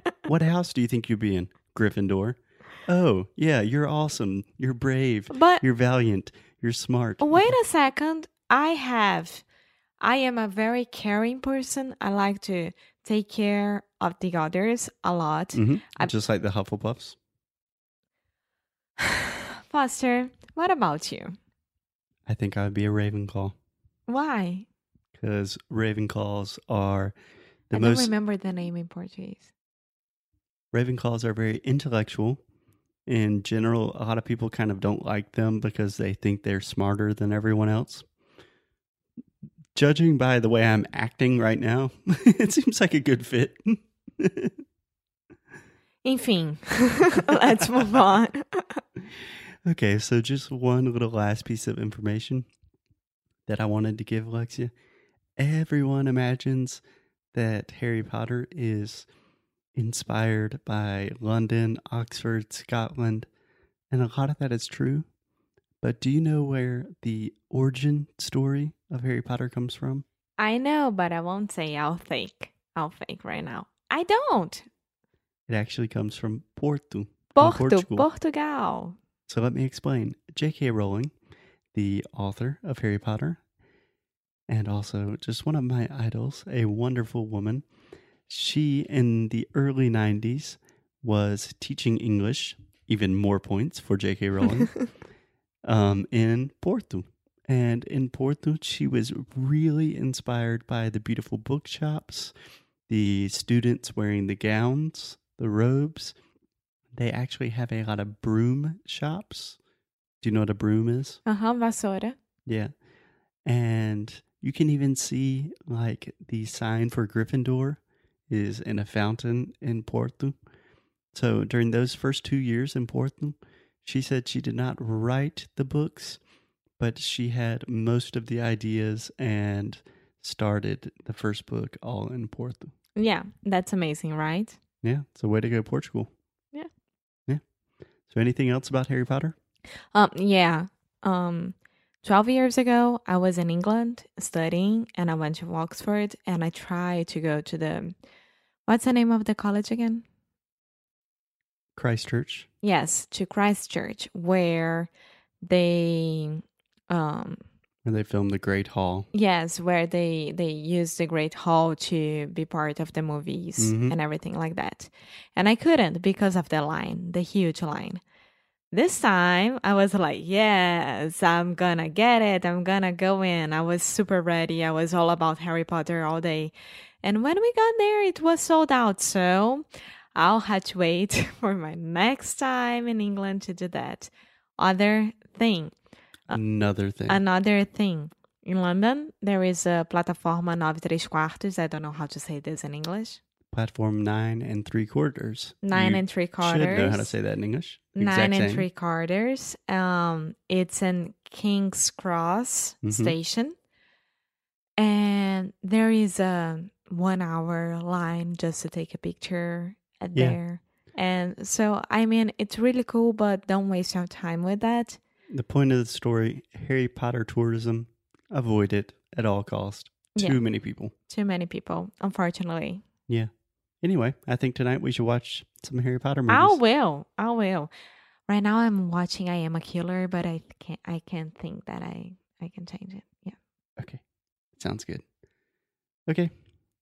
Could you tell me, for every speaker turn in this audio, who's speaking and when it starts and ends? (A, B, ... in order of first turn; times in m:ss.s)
0:00.2-0:07.6 A
0:05.3-0:05.6 B
0:07.2-0:09.4 B
0:10.0-0:16.1 B
0:15.5-0:17.2 A
0:19.0-0:21.4 B
0:22.3-0:23.5 A
0:24.1-0:24.7 B
0:25.2-0:27.2 A
0:27.7-0:28.1 A
0:27.7-0:29.5 B
0:30.7-0:32.4 A
0:33.1-0:38.1 A
0:39.8-0:44.6 A
0:46.0-0:48.8 B
0:47.8-0:48.0 A
0:49.7-0:52.5 A
0:53.5-0:54.7 A
0:55.4-0:56.8 A
0:57.3-0:59.1 A
0:59.8-1:03.3 A
1:03.9-1:05.1 A
1:05.8-1:10.0 A
1:10.4-1:14.6 B
1:15.5-1:18.1 A
1:17.4-1:19.0 B
1:19.3-1:21.1 A
1:21.7-1:23.4 A
1:24.5-1:27.6 A
1:28.3-1:34.8 A
1:35.6-1:42.3 A
1:42.9-1:46.1 A
1:47.0-1:49.6 A
1:50.2-1:51.2 A
1:51.3-1:52.2 B
1:52.5-1:52.7 A
1:53.5-2:00.4 A
2:01.1-2:06.2 A
2:06.8-2:12.7 A
2:13.0-2:14.6 B
2:14.8-2:16.1 A
2:18.1-2:19.4 A
2:19.9-2:28.0 B
2:28.7-2:30.0 B
2:31.8-2:32.5 A
2:32.6-2:34.9 B
2:35.4-2:37.4 B
2:37.8-2:39.1 A
2:39.1-2:48.0 B
2:43.6-2:44.0 A
2:48.7-3:05.7 B
3:06.3-3:07.2 A
3:07.1-3:13.2 B
3:13.5-3:18.7 A
3:15.6-3:17.1 B
3:18.0-3:23.6 B
3:22.8-3:23.2 A
3:24.8-3:35.0 B
3:35.3-3:40.9 A
3:40.2-3:40.4 B
3:41.1-3:42.8 B
3:43.8-3:46.6 A
3:46.3-3:47.7 B
3:48.3-3:53.4 B
3:54.5-3:55.0 A
3:56.1-3:56.3 A